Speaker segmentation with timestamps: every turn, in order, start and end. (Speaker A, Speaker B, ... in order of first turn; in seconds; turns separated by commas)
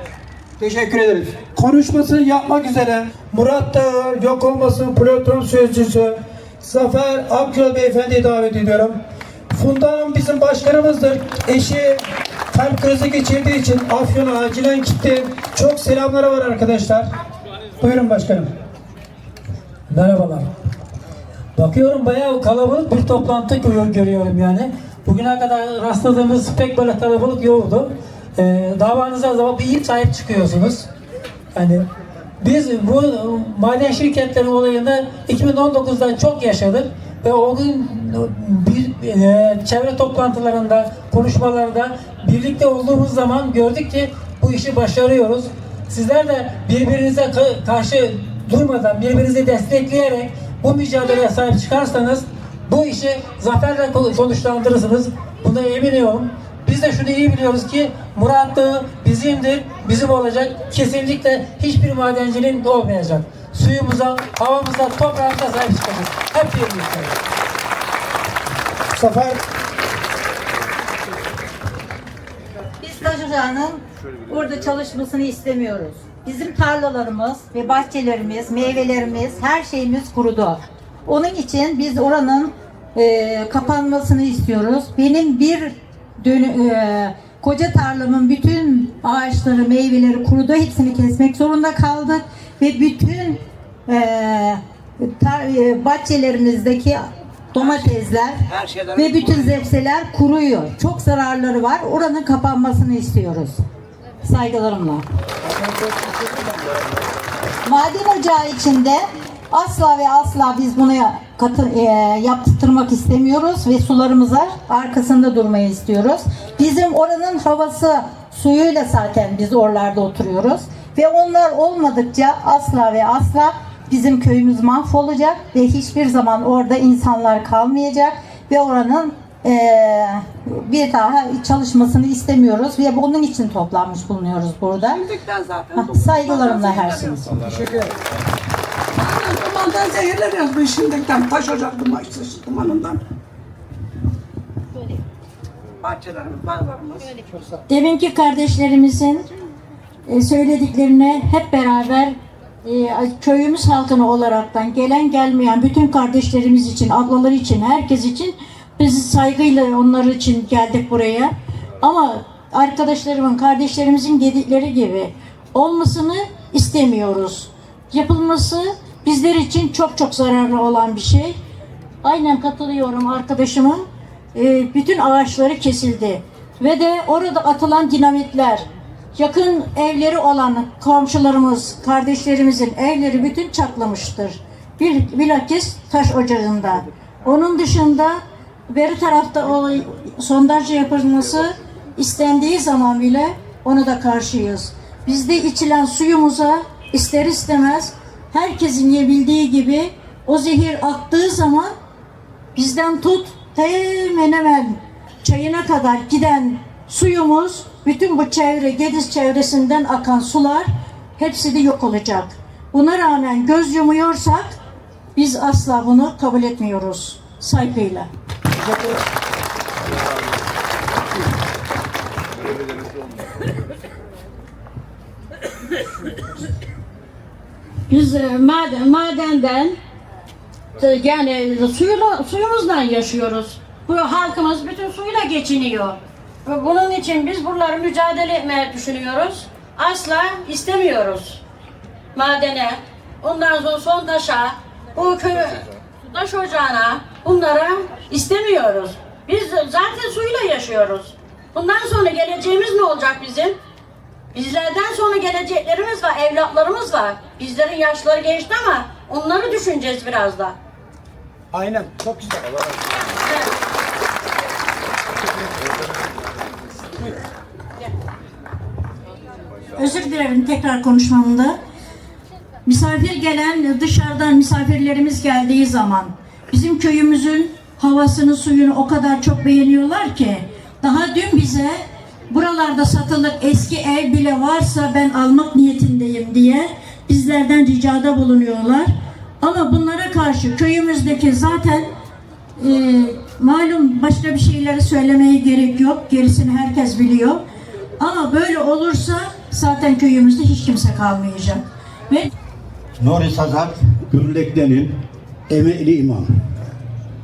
Speaker A: 0.6-8.9, Speaker A: 9.5-17.1, Speaker A: 17.8-18.5, Speaker B: 19.9-20.5, Speaker B: 21.6-30.9, Speaker B: 31.5-31.9, Speaker B: 32.4-67.1, Speaker A: 68.9-69.4, Speaker C: 72.8-97.0, Speaker C: 97.5-98.4, Speaker C: 98.9-103.6, Speaker C: 104.2-105.0, Speaker C: 107.6-135.2, Speaker D: 135.2-135.7, Speaker C: 135.7-137.5, Speaker D: 139.0-143.0, Speaker D: 145.8-147.0, Speaker E: 147.7-149.2, Speaker E: 150.1-171.3, Speaker E: 172.0-188.2, Speaker E: 188.7-201.7, Speaker E: 202.5-214.4, Speaker E: 215.1-218.1, Speaker F: 227.9-229.8, Speaker F: 230.8-241.4, Speaker F: 242.1-253.6, Speaker F: 254.3-260.6, Speaker A: 261.5-262.5, Speaker E: 269.8-271.6, Speaker E: 272.6-281.8, Speaker E: 282.3-291.9, Speaker E: 292.6-297.4, Speaker E: 298.0-302.3, Speaker G: 303.0-306.3